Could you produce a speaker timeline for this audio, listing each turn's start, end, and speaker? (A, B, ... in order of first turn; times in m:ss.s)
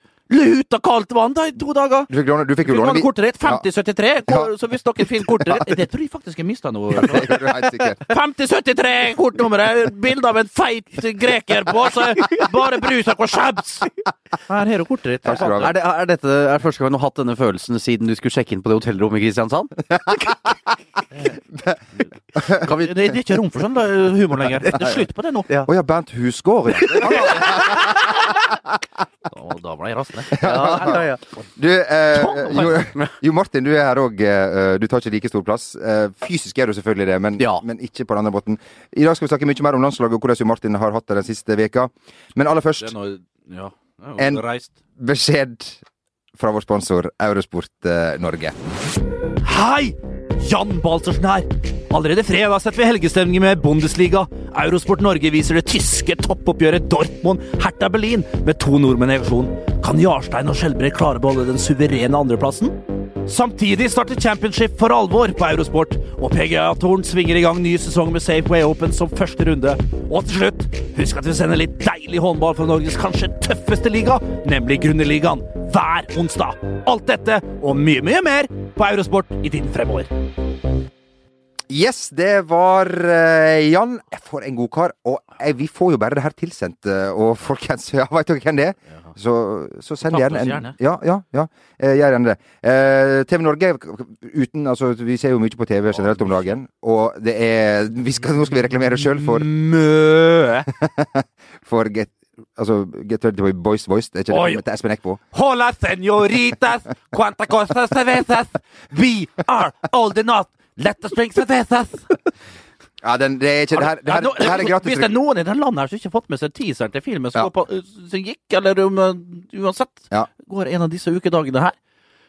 0:00.3-0:02.1 A
0:02.1-0:03.7 B
0:02.6-0:14.0 A
0:05.2-0:05.7 B
0:06.9-0:08.0 B
0:14.5-0:15.7 A
0:15.2-0:15.8 B
0:15.6-0:19.8 C
0:22.4-0:22.7 B
0:22.5-0:25.5 A
0:22.6-0:22.9 C
0:25.7-0:28.2 B
0:26.8-0:28.3 A
0:27.0-0:27.3 C
0:29.3-0:31.1 A
0:30.4-0:31.0 B
0:30.4-0:31.2 C
0:31.6-0:42.9 B
0:32.1-0:32.9 A
0:37.4-0:37.6 C
0:42.8-0:44.7 A
0:44.2-0:44.4 B
0:45.0-0:45.8 B
0:46.4-0:48.6 B
0:49.4-1:20.1 A
1:21.7-1:39.5 B
1:30.1-1:30.8 A
1:36.0-1:36.4 A
1:38.7-1:40.7 A
1:40.8-1:45.2 B
1:44.3-1:44.6 A
1:45.3-1:52.2 A
1:53.0-1:55.2 B
1:53.7-2:01.8 A